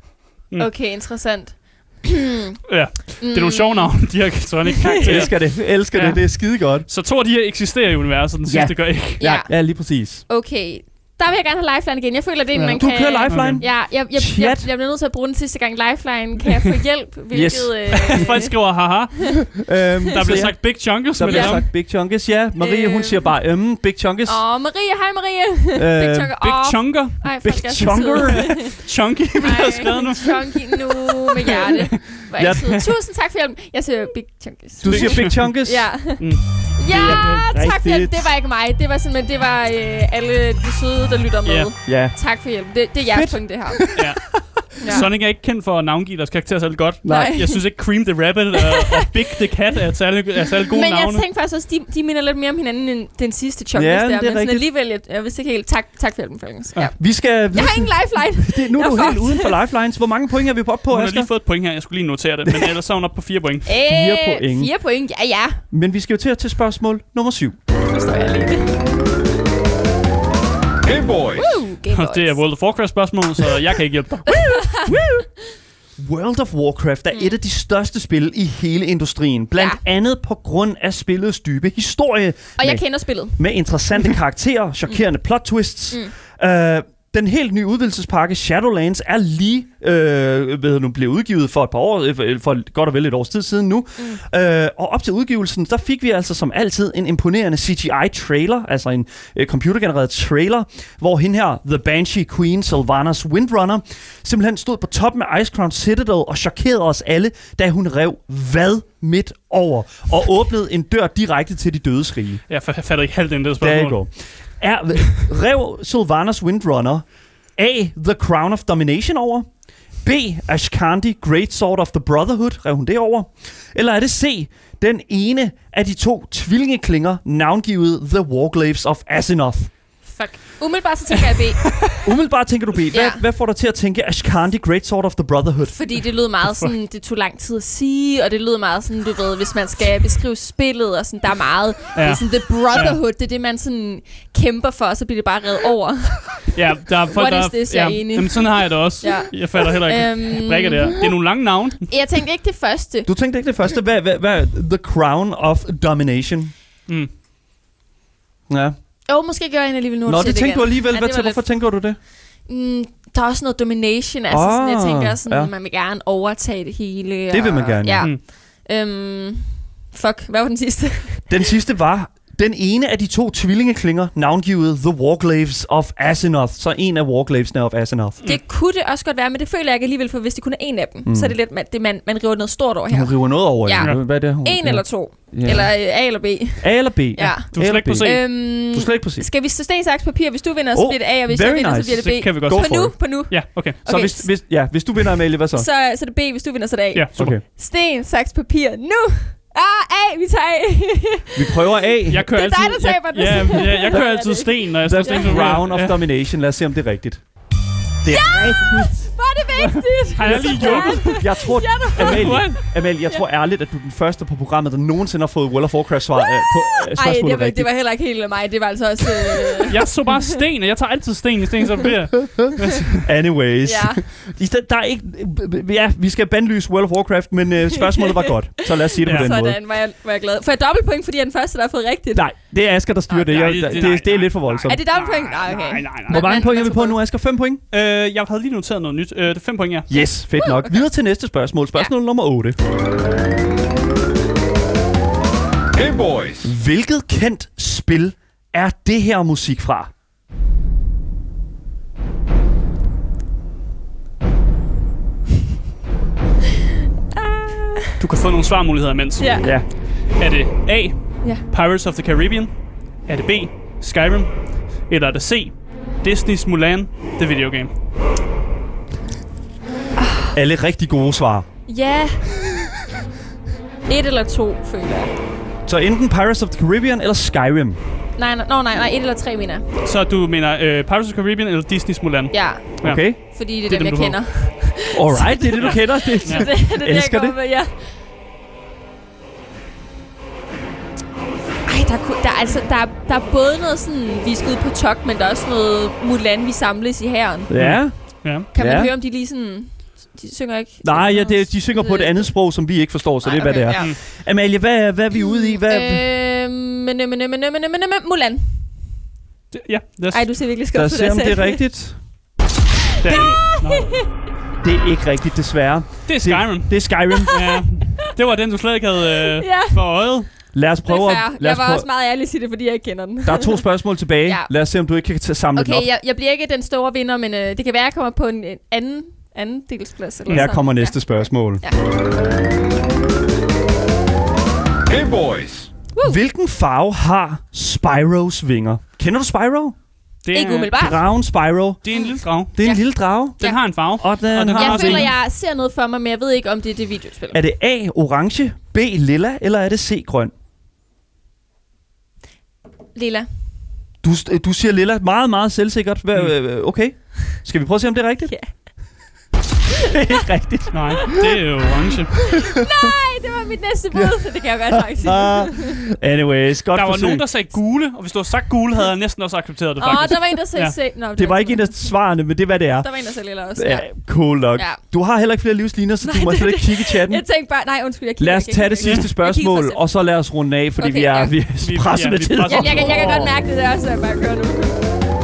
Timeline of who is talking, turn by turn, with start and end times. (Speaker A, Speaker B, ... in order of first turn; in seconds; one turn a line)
Speaker A: 0.6-2.6
Speaker B: 2.7-9.2
Speaker A: 3.2-3.9
Speaker A: 4.7-5.2
Speaker C: 5.0-6.9
Speaker C: 8.5-10.2
Speaker A: 9.2-9.5
Speaker A: 10.3-18.5
Speaker B: 12.5-13.6
Speaker C: 12.8-14.7
Speaker C: 17.3-18.2
Speaker B: 17.9-19.4
Speaker C: 19.4-24.4
Speaker B: 20.1-21.7
Speaker A: 21.2-21.6
Speaker A: 22.6-23.3
Speaker A: 24.2-28.8
Speaker C: 25.7-26.4
Speaker B: 26.4-32.8
Speaker C: 27.4-28.7
Speaker A: 29.4-43.9
Speaker C: 32.3-32.7
Speaker C: 34.8-35.9
Speaker B: 34.8-35.4
Speaker B: 36.2-37.3
Speaker C: 36.9-38.3
Speaker B: 41.4-41.7
Speaker C: 41.9-42.2
Speaker C: 43.0-44.1
Speaker B: 43.9-44.2
Speaker A: 44.8-45.1
Speaker B: 44.8-51.2
Speaker C: 44.8-45.1
Speaker C: 47.0-47.4
Speaker A: 47.0-47.6
Speaker A: 48.6-49.0
Speaker A: 50.7-57.0
Speaker C: 53.7-54.6
Speaker C: 57.0-61.3
Speaker A: 57.5-59.5
Speaker B: 60.9-63.7
Speaker A: 63.6-65.6
Speaker C: 63.8-64.7
Speaker C: 65.7-67.6
Speaker A: 67.9-68.7
Speaker D: 70.8-71.6
Speaker A: 71.4-72.4
Speaker B: 71.9-75.0
Speaker A: 74.3-75.2
Speaker C: 76.0-112.4
Speaker A: 82.6-83.4
Speaker B: 112.5-114.0
Speaker C: 113.6-117.0
Speaker C: 117.6-119.5
Speaker C: 120.0-129.7
Speaker A: 130.1-131.9
Speaker B: 131.6-132.0
Speaker C: 132.0-135.8
Speaker A: 132.9-133.2
Speaker A: 135.7-146.5
Speaker B: 136.4-136.7
Speaker B: 141.9-143.0
Speaker B: 146.5-151.9
Speaker A: 147.1-151.0
Speaker A: 151.9-153.1
Speaker C: 153.1-156.5
Speaker C: 158.5-158.8
Speaker A: 159.1-161.4
Speaker C: 160.1-162.0
Speaker A: 162.4-171.4
Speaker C: 164.3-165.5
Speaker C: 167.3-168.1
Speaker C: 171.3-178.2
Speaker A: 178.2-194.3
Speaker C: 181.0-181.3
Speaker C: 182.9-185.7
Speaker B: 183.8-184.0
Speaker C: 186.6-189.3
Speaker B: 187.5-188.2
Speaker C: 190.7-192.9
Speaker B: 192.0-193.8
Speaker C: 193.8-195.7
Speaker A: 195.5-205.6
Speaker B: 196.9-197.4
Speaker C: 197.2-197.4
Speaker C: 201.3-202.3
Speaker B: 202.1-206.0
Speaker C: 204.8-207.2
Speaker C: 208.0-209.1
Speaker A: 208.1-213.2
Speaker B: 209.6-212.6
Speaker C: 210.2-217.7
Speaker A: 216.2-219.8
Speaker B: 219.7-223.0
Speaker C: 222.4-229.6
Speaker A: 223.6-224.0
Speaker A: 227.8-232.3
Speaker B: 229.0-229.3
Speaker C: 232.1-234.8
Speaker A: 233.1-234.0
Speaker B: 233.3-236.5
Speaker A: 234.6-237.0
Speaker C: 236.1-237.6
Speaker B: 237.7-239.9
Speaker C: 239.9-242.6
Speaker A: 240.4-240.8
Speaker D: 245.7-246.5
Speaker C: 246.4-249.9
Speaker A: 257.1-258.0
Speaker B: 258.0-259.3
Speaker A: 259.2-259.5
Speaker B: 260.1-262.5
Speaker B: 263.0-267.7
Speaker A: 270.0-270.3
Speaker C: 270.3-271.4
Speaker A: 271.7-272.2
Speaker A: 273.9-275.1
Speaker C: 275.6-277.8
Speaker A: 278.1-279.6
Speaker B: 279.8-283.1
Speaker A: 282.3-287.7
Speaker C: 282.8-283.2
Speaker B: 283.6-284.2
Speaker C: 284.9-287.4
Speaker B: 285.6-286.5
Speaker A: 291.6-297.5
Speaker C: 297.5-298.9
Speaker B: 297.5-298.5
Speaker A: 298.5-302.3
Speaker C: 300.8-306.1
Speaker A: 303.2-303.9
Speaker A: 305.1-308.5
Speaker B: 309.5-310.3
Speaker A: 310.1-311.6
Speaker C: 310.7-312.0
Speaker B: 313.0-313.9
Speaker C: 313.1-313.4
Speaker A: 313.1-314.1
Speaker C: 314.6-317.4
Speaker B: 316.1-320.3
Speaker A: 319.2-319.8
Speaker C: 320.5-321.9
Speaker A: 320.9-323.6
Speaker C: 323.2-325.9
Speaker A: 324.2-324.5
Speaker A: 325.5-331.8
Speaker B: 330.2-330.5
Speaker C: 330.3-331.6
Speaker D: 334.8-335.7
Speaker C: 336.0-339.7
Speaker B: 340.2-340.8
Speaker A: 340.3-341.0
Speaker C: 340.7-345.1
Speaker B: 341.8-342.6
Speaker A: 341.9-342.8
Speaker B: 343.4-345.1
Speaker A: 344.5-347.4
Speaker C: 347.3-350.3
Speaker A: 352.9-353.3
Speaker C: 354.0-358.4
Speaker C: 359.8-361.2
Speaker B: 360.7-362.2
Speaker A: 362.2-365.8
Speaker C: 362.4-362.9
Speaker C: 364.7-367.2
Speaker B: 366.7-370.7
Speaker A: 369.8-371.9
Speaker C: 371.1-372.9
Speaker A: 372.8-373.9
Speaker C: 373.5-377.2
Speaker A: 376.0-379.8
Speaker C: 378.2-383.3
Speaker A: 380.8-381.4
Speaker B: 381.6-383.3
Speaker A: 382.4-384.8